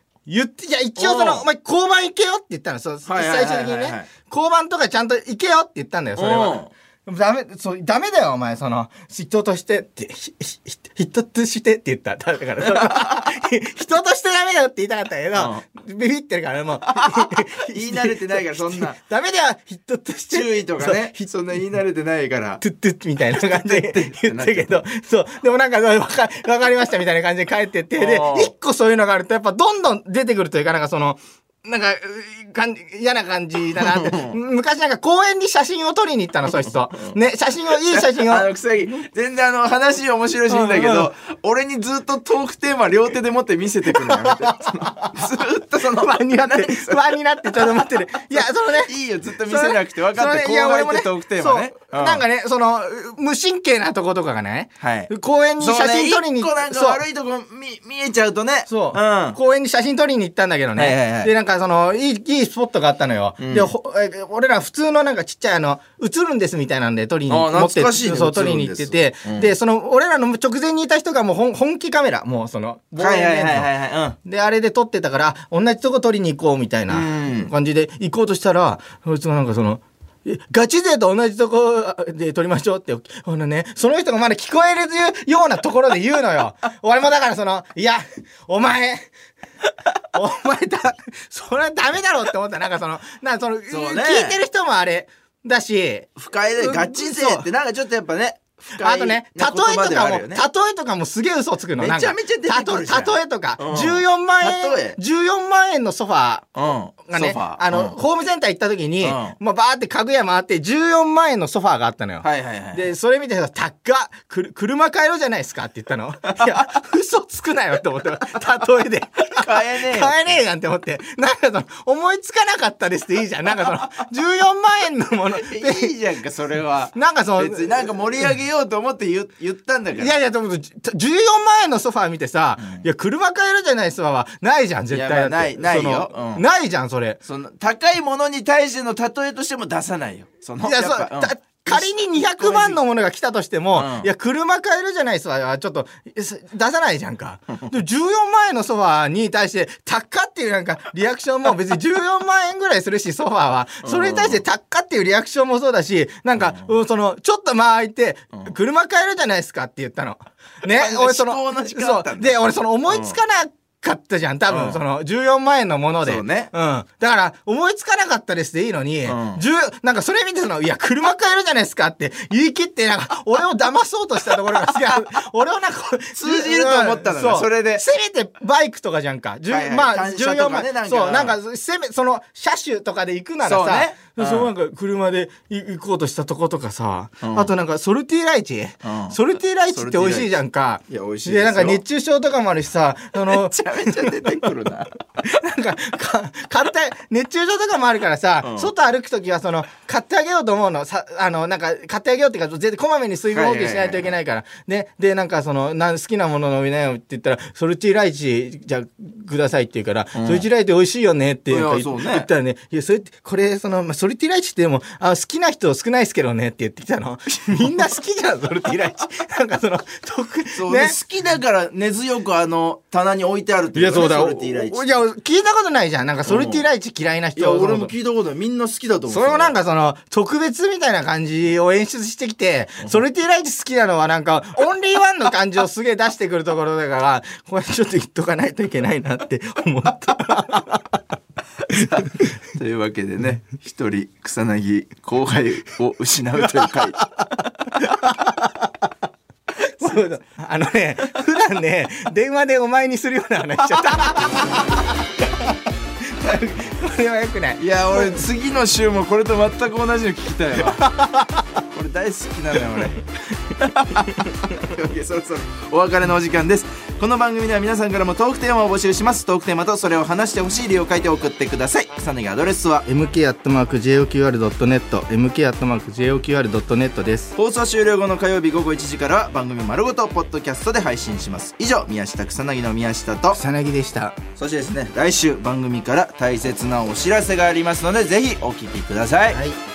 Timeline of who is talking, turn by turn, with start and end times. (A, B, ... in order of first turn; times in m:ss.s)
0:00.3-0:21.6 A
0:01.0-0:01.5 B
0:03.0-0:04.1 B
0:06.2-0:06.7 B
0:12.8-0:13.3 B
0:15.3-0:15.6 B
0:16.9-0:19.0 B
0:20.3-0:22.6 B
0:22.6-0:38.5 A
0:23.3-0:24.9 B
0:27.9-0:28.5 B
0:33.8-0:34.4 B
0:36.5-0:37.2 B
0:37.7-0:47.8 B
0:40.5-0:41.1 A
0:43.9-0:45.2 A
0:45.8-0:57.0 A
0:48.4-0:52.2 B
0:54.8-0:59.4 B
0:58.7-1:13.7 A
1:00.8-1:01.3 B
1:03.4-1:03.7 B
1:07.3-1:09.5 B
1:13.0-1:14.2 B
1:14.2-1:29.1 A
1:16.9-1:17.5 B
1:30.1-1:37.5 A
1:33.7-1:34.4 B
1:36.2-1:40.4 B
1:38.8-1:46.5 A
1:41.8-1:45.0 B
1:46.6-1:48.0 B
1:47.1-2:05.9 A
1:49.0-1:49.4 B
1:52.2-1:52.9 B
1:59.4-2:00.2 B
2:05.3-2:10.2 B
2:06.9-2:07.9 A
2:10.0-2:17.2 A
2:12.6-2:12.8 B
2:14.9-2:16.4 B
2:17.2-2:22.8 B
2:20.6-3:14.6 A
2:23.7-2:24.1 B
2:33.8-2:34.4 B
2:36.4-2:36.7 B
2:40.7-2:43.2 B
2:44.5-2:44.8 B
2:46.0-2:46.5 B
2:49.1-2:49.4 B
2:54.7-2:55.0 B
2:56.2-2:57.8 B
2:59.5-3:01.4 B
3:03.4-3:04.5 B
3:07.2-3:07.5 B
3:08.8-3:10.4 B
3:10.9-3:11.8 B
3:13.2-3:14.9 B
3:15.2-3:41.0 A
3:18.4-3:18.7 B
3:23.3-3:24.2 B
3:30.1-3:30.5 B
3:31.5-3:32.3 B
3:37.5-3:37.8 B
3:40.5-3:44.8 B
3:43.8-3:47.9 A
3:46.3-3:46.6 B
3:47.4-3:49.6 B
3:49.1-4:01.0 A
4:01.7-4:07.7 B
4:01.8-4:02.2 A
4:06.6-4:07.0 A
4:07.8-4:08.7 A
4:09.7-4:15.5 A
4:16.1-4:18.2 A
4:17.6-4:20.8 B
4:20.6-4:21.6 A
4:21.7-4:23.0 B
4:22.6-4:23.0 A
4:23.6-4:32.9 B
4:32.9-4:37.4 A
4:37.4-4:43.4 B
4:43.3-4:44.2 A
4:44.4-4:49.4 B
4:49.3-4:49.6 A